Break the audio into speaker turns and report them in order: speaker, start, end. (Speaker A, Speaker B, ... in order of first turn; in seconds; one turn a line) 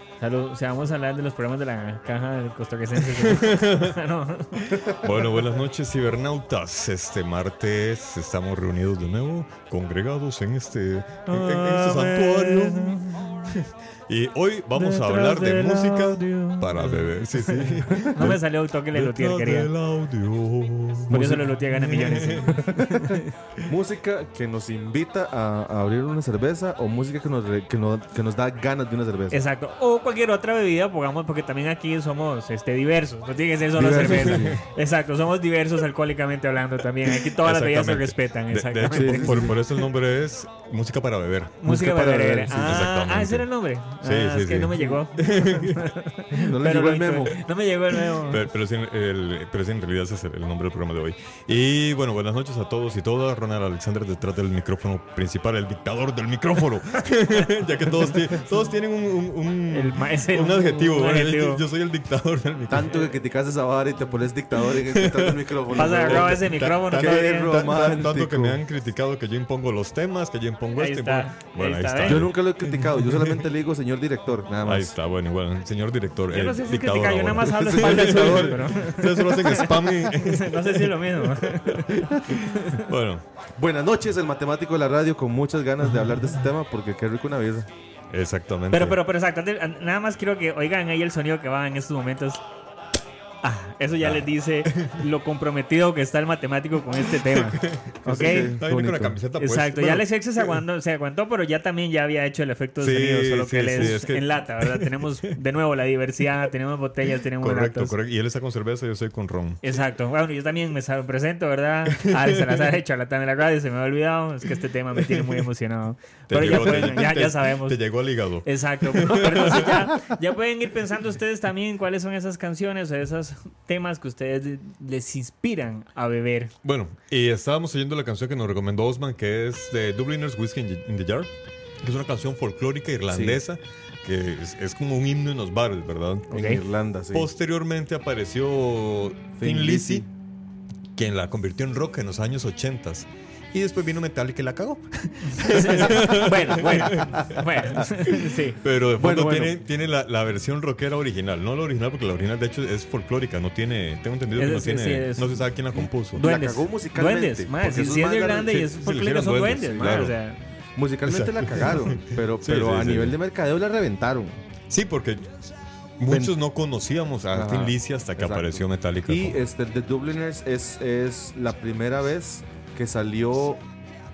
Speaker A: 0.2-4.7
Speaker B: 3.0-4.0
Speaker B: 4.6-22.7
Speaker C: 4.8-5.4
Speaker A: 11.3-13.4
Speaker A: 14.8-19.7
Speaker C: 17.8-18.4
Speaker A: 21.1-23.3
Speaker C: 21.1-21.4
Speaker C: 22.6-29.4
Speaker A: 29.3-39.5
Speaker C: 33.7-34.6
Speaker B: 34.2-34.6
Speaker B: 37.0-41.7
Speaker C: 38.9-39.6
Speaker A: 41.6-48.4
Speaker C: 41.6-42.7
Speaker B: 42.5-43.5
Speaker B: 44.0-45.9
Speaker C: 46.3-47.4
Speaker B: 47.9-63.2
Speaker A: 59.7-61.6
Speaker C: 62.7-68.6
Speaker B: 64.6-73.5
Speaker A: 65.7-67.8
Speaker A: 70.7-72.3
Speaker C: 72.0-74.9
Speaker B: 74.6-83.2
Speaker A: 76.3-82.9
Speaker C: 77.5-78.8
Speaker C: 83.5-87.7
Speaker B: 88.1-89.0
Speaker A: 88.7-92.4
Speaker A: 93.4-98.6
Speaker B: 94.0-95.0
Speaker B: 97.0-100.6
Speaker C: 98.0-99.2
Speaker A: 99.4-107.9
Speaker B: 102.8-105.3
Speaker B: 107.2-109.8
Speaker A: 109.6-117.8
Speaker B: 111.9-112.6
Speaker B: 115.0-115.4
Speaker B: 116.3-119.8
Speaker A: 118.4-126.5
Speaker B: 126.6-136.6
Speaker C: 133.1-133.4
Speaker A: 136.3-136.6
Speaker C: 136.3-137.3
Speaker B: 137.1-140.1
Speaker C: 139.4-140.1
Speaker B: 140.9-156.2
Speaker A: 145.2-148.6
Speaker C: 149.0-149.6
Speaker A: 154.3-155.4
Speaker A: 156.1-160.4
Speaker C: 156.2-158.7
Speaker B: 158.4-160.2
Speaker C: 160.8-164.4
Speaker B: 161.0-163.2
Speaker B: 164.7-165.3
Speaker B: 166.0-169.4
Speaker C: 166.1-166.3
Speaker C: 167.3-173.6